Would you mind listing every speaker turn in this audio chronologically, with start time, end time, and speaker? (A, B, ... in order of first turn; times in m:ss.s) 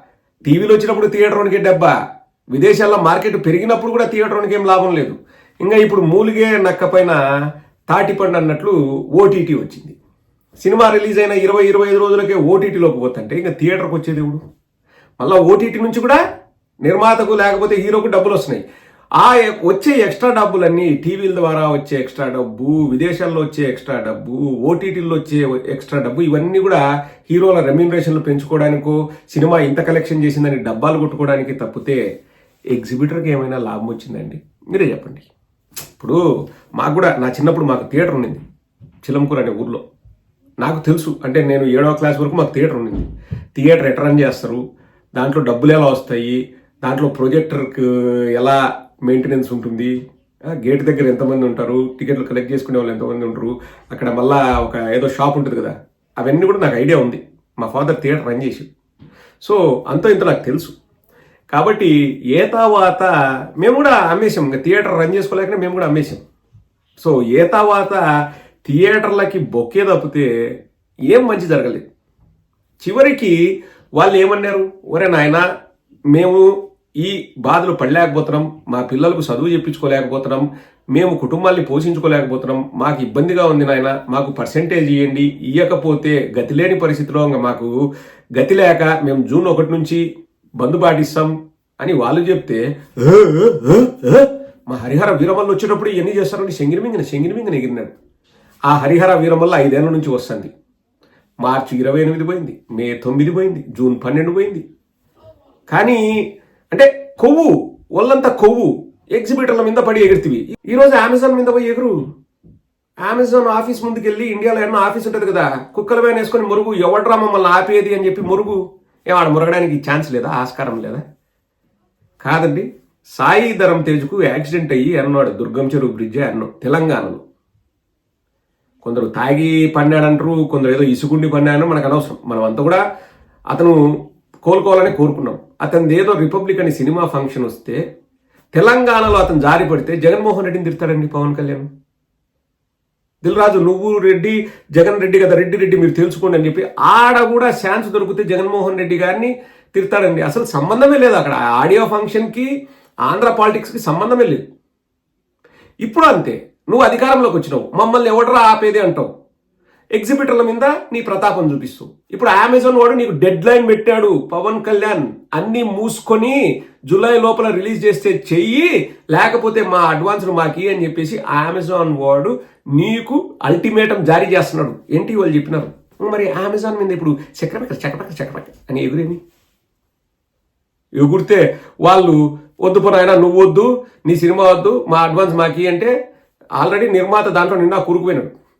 0:00.4-0:01.9 A
0:02.5-0:07.2 A
0:07.9-0:10.0 A
0:10.6-0:14.4 A
0:15.2-0:16.2 A
0:16.8-0:18.6 A
0:19.2-0:32.0 A
0:32.7-0:35.3 A
0:36.8-0:38.4 A
0:39.0-0:39.8 A
0:40.6-0:44.6 A
0:45.2-0:49.9 A
0:50.5-0:58.7 A
0:59.4-1:00.8 A
1:01.5-1:06.2 A
1:07.0-1:08.0 A
1:08.6-1:10.3 A
1:11.1-1:11.8 A
1:12.8-1:13.3 A
1:14.0-1:15.4 A
1:16.1-1:16.5 A
1:17.0-1:27.7 A
1:28.4-1:30.0 A
1:30.6-1:37.9 A
1:38.7-1:40.5 A
1:41.4-1:44.6 A
1:45.7-1:46.0 A
1:46.7-1:52.0 A
1:53.0-2:01.0 A
2:02.2-2:07.2 A
2:08.8-2:12.8 A
2:13.5-2:13.8 A
2:14.4-2:17.8 A
2:18.5-2:21.7 A
2:23.2-2:32.5 A
2:33.1-2:34.4 A
2:35.8-2:39.1 A
2:40.0-2:59.2 A
3:01.0-3:05.9 A
3:06.6-3:08.3 A